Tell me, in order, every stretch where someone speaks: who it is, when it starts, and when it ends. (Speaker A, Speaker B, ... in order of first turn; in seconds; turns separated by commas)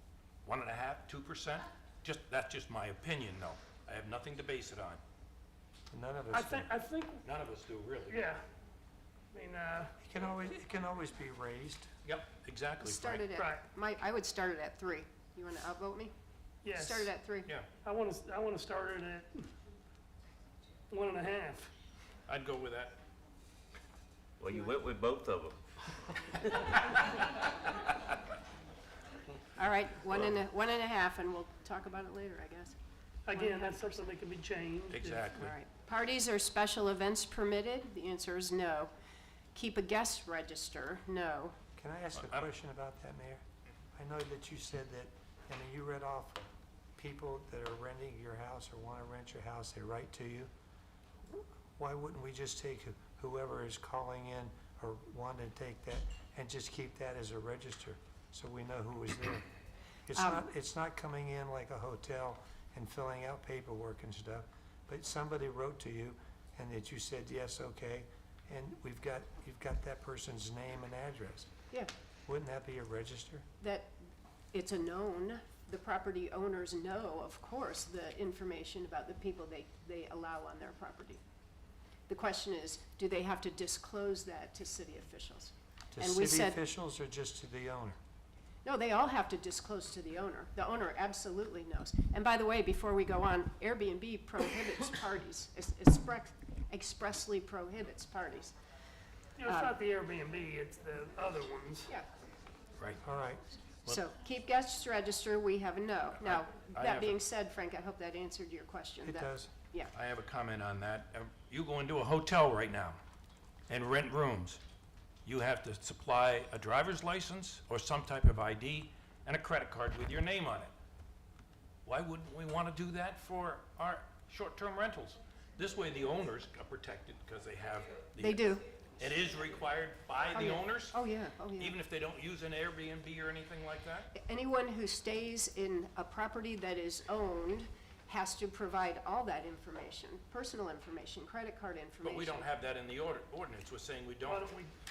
Speaker A: 0.5-5.0, Speaker B: 5.9-6.7, Speaker C: 6.3-7.2, Speaker A: 7.2-8.2, Speaker C: 8.1-8.4, Speaker C: 9.3-9.9, Speaker B: 10.0-11.9, Speaker A: 12.1-13.2, Speaker D: 12.8-16.1, Speaker C: 13.4-13.6, Speaker C: 16.6-17.1, Speaker D: 16.7-17.5, Speaker C: 17.8-19.5, Speaker C: 20.9-21.7, Speaker A: 22.3-22.9, Speaker E: 24.4-26.7, Speaker D: 29.6-32.8, Speaker C: 33.2-35.4, Speaker D: 33.3-34.0, Speaker A: 34.9-35.5, Speaker D: 35.4-38.9, Speaker D: 39.5-41.6, Speaker B: 41.8-43.4, Speaker A: 42.1-42.5, Speaker B: 44.0-46.4, Speaker B: 47.0-50.5, Speaker B: 51.3-59.5, Speaker B: 60.1-71.5, Speaker D: 60.1-60.4, Speaker B: 72.3-73.5, Speaker D: 73.6-73.9, Speaker D: 74.5-81.2, Speaker D: 82.1-86.6, Speaker B: 85.9-88.0, Speaker D: 88.6-98.5, Speaker C: 99.4-101.9, Speaker D: 99.5-99.8, Speaker A: 102.8-103.0, Speaker B: 103.0-103.5, Speaker D: 103.9-109.9, Speaker A: 106.2-107.2, Speaker B: 109.0-109.5, Speaker A: 109.9-113.0, Speaker A: 113.7-114.6, Speaker A: 115.2-120.7, Speaker A: 121.8-131.0, Speaker D: 128.2-128.6, Speaker D: 130.3-131.8, Speaker A: 131.6-134.1, Speaker D: 134.1-142.5, Speaker A: 142.0-144.5, Speaker C: 144.3-144.7